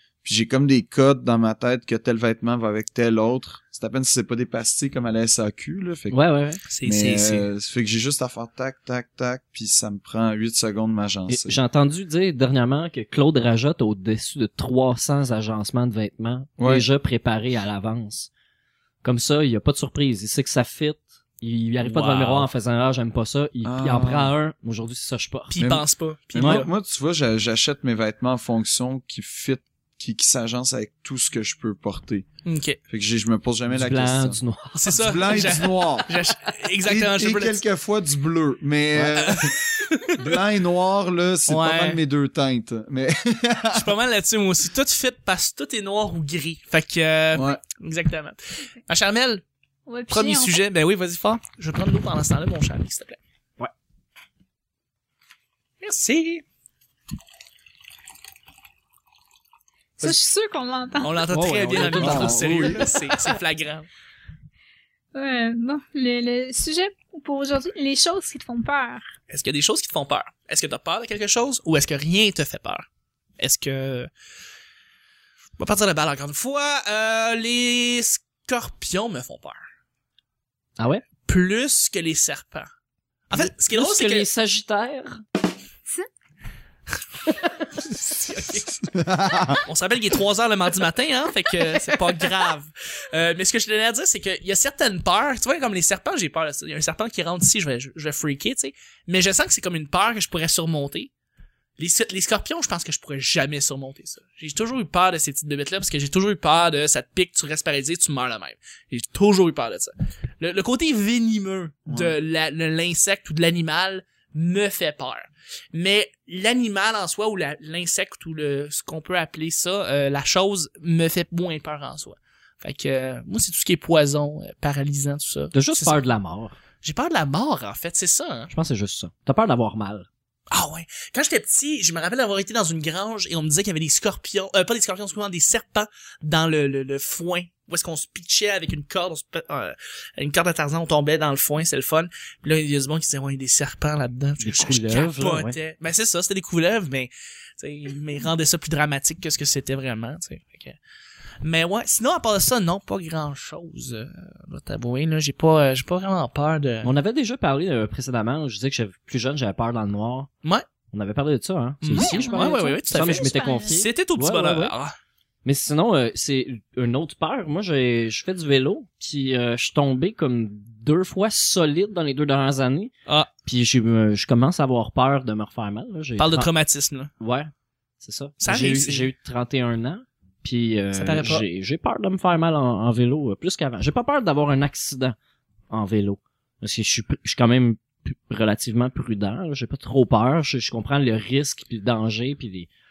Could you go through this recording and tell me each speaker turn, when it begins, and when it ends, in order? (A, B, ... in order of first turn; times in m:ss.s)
0:00.2-0:06.2 A
0:06.1-0:06.6 B
0:06.7-0:07.5 C
0:06.8-0:11.6 A
0:11.3-0:18.3 B
0:16.6-0:16.8 A
0:19.0-0:25.5 B
0:21.8-0:22.5 C
0:23.6-0:24.3 A
0:25.5-0:26.7 C
0:25.6-0:32.2 A
0:32.4-0:32.8 C
0:32.9-0:34.4 A
0:33.7-0:35.1 B
0:34.8-0:37.6 C
0:34.9-0:36.1 A
0:36.8-0:39.6 A
0:39.0-0:40.4 C
0:40.1-0:43.9 A
0:41.5-0:42.0 C
0:43.7-0:49.4 C
0:47.3-0:47.6 A
0:49.9-0:50.6 D
0:50.1-0:53.2 C
0:55.8-0:56.4 C
1:00.0-1:01.2 D
1:01.0-1:03.9 C
1:01.3-1:02.9 B
1:02.0-1:02.8 A
1:05.1-1:09.1 D
1:09.3-1:12.8 C
1:13.4-1:14.1 C
1:15.6-1:19.6 C
1:20.8-1:21.0 B
1:21.2-1:22.7 C
1:23.3-1:24.3 C
1:23.7-1:25.2 B
1:27.8-1:28.9 C
1:28.9-1:29.6 A
1:29.6-1:41.1 C
1:41.8-2:06.0 C
1:51.8-1:52.1 A
2:05.5-2:06.6 B
2:06.8-2:08.5 C
2:08.5-2:10.1 B
2:10.5-2:30.8 C
2:24.4-2:25.6 B
2:31.4-2:36.9 C
2:36.8-2:40.3 B
2:40.9-2:44.7 B
2:41.8-2:44.9 C
2:41.9-2:43.8 D
2:45.4-2:52.9 B
2:53.4-2:56.5 B
2:56.2-2:57.1 C
2:57.2-3:05.2 B
2:58.4-2:59.1 C
3:00.9-3:01.4 C
3:05.7-3:12.7 B